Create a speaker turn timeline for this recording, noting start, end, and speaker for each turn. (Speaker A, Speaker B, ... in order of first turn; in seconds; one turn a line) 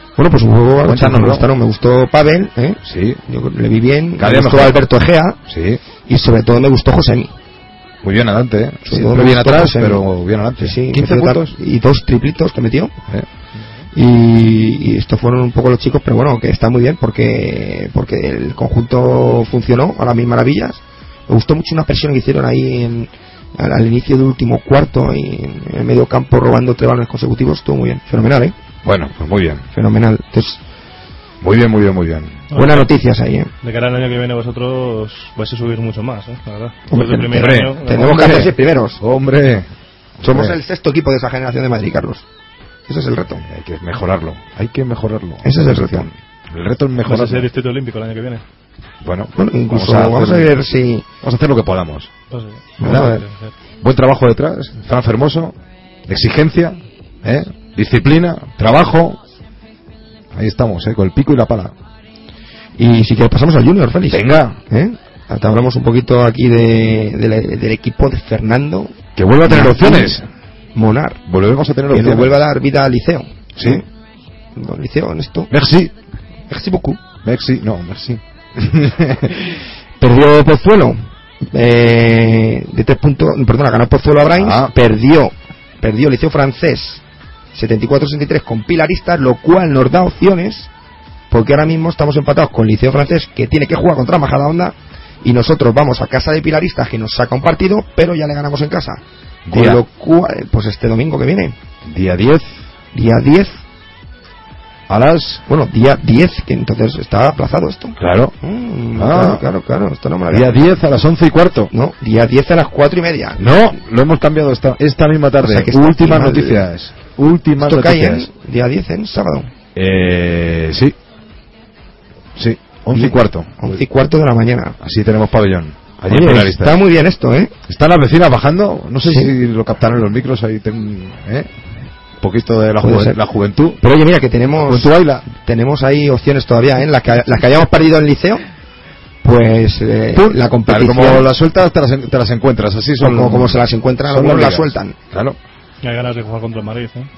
Speaker A: 0.1-5.4
Speaker B: 0.8-1.5
Speaker B: 2.8-3.2
Speaker B: 4.2-4.8
Speaker B: 5.5-5.8
Speaker A: 6.1-7.3
Speaker B: 8.0-11.5
Speaker A: 8.9-10.1
Speaker A: 10.6-12.9
Speaker A: 13.9-28.5
Speaker B: 28.8-29.7
Speaker A: 29.7-30.6
Speaker B: 31.4-32.4
Speaker C: 32.5-32.9
Speaker A: 32.5-33.5
Speaker C: 33.6-38.4
Speaker A: 36.9-39.0
Speaker B: 37.3-39.7
Speaker B: 40.2-40.6
Speaker A: 40.2-42.2
Speaker A: 42.9-43.4
Speaker B: 43.4-47.5
Speaker A: 45.4-46.1
Speaker C: 47.0-48.4
Speaker B: 49.0-50.5
Speaker A: 49.4-51.0
Speaker B: 51.2-52.1
Speaker C: 52.3-53.5
Speaker A: 52.8-53.2
Speaker B: 52.8-53.2
Speaker B: 53.8-55.5
Speaker B: 56.1-59.2
Speaker B: 60.3-61.7
Speaker A: 62.8-70.2
Speaker B: 64.1-64.6
Speaker B: 69.2-70.3
Speaker A: 70.7-71.2
Speaker B: 71.2-72.4
Speaker A: 71.9-73.8
Speaker B: 73.5-73.8
Speaker A: 74.5-75.5
Speaker B: 75.5-75.9
Speaker A: 76.5-77.0
Speaker B: 77.2-79.5
Speaker A: 80.0-81.0
Speaker A: 81.5-87.0
Speaker B: 84.3-84.7
Speaker A: 87.5-90.7
Speaker A: 91.3-101.5
Speaker B: 99.5-99.8
Speaker B: 101.8-102.5
Speaker A: 102.9-103.5
Speaker B: 104.9-105.4
Speaker A: 105.5-110.6
Speaker B: 108.0-108.3
Speaker B: 108.9-109.4
Speaker B: 110.3-111.7
Speaker A: 111.7-113.5
Speaker B: 113.4-118.3
Speaker A: 115.4-116.6
Speaker A: 117.6-119.5
Speaker B: 119.7-120.9
Speaker B: 122.3-123.8
Speaker A: 122.9-124.8
Speaker B: 124.8-126.8
Speaker A: 126.1-127.5
Speaker B: 127.7-131.5
Speaker A: 129.1-129.3
Speaker B: 132.2-133.8
Speaker A: 132.8-133.2
Speaker A: 133.8-138.4
Speaker B: 134.6-135.2
Speaker A: 139.2-141.3
Speaker B: 140.1-145.4
Speaker A: 143.0-144.9
Speaker C: 145.8-147.1